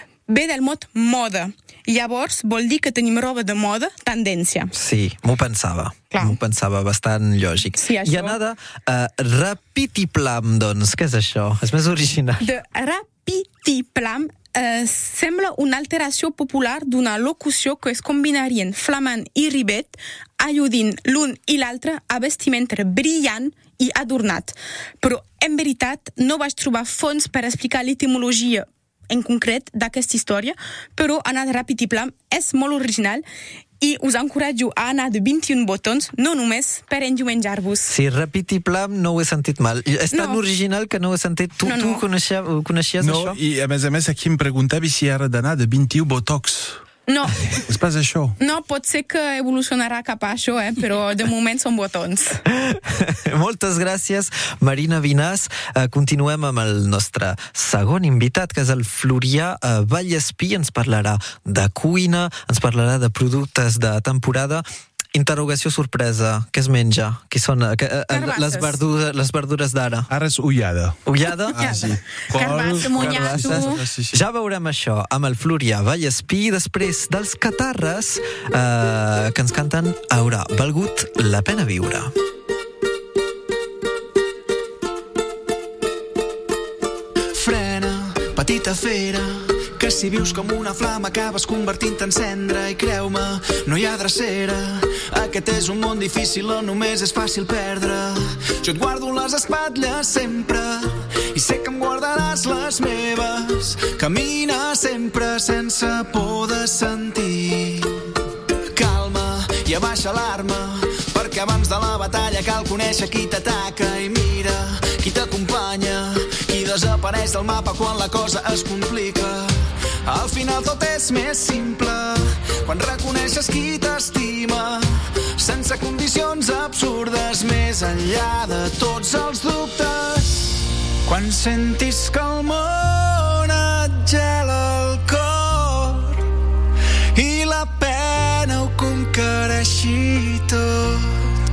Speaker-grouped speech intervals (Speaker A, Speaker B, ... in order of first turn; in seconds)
Speaker A: 0.3-4.7, 6.1-6.4, 7.8-8.4, 12.4-33.2, 33.8-37.9, 40.1-40.4, 41.6-42.0, 47.1-47.5, 48.4-52.4, 68.1-68.8, 71.6-73.8
Speaker B: 4.7-12.5, 37.9-43.4, 52.5-70.1, 71.1-71.6, 72.9-82.1
Speaker C: 43.0-46.8, 47.7-48.4, 70.1-74.2
Speaker D: 87.3-108.0, 108.7-136.2, 137.1-141.3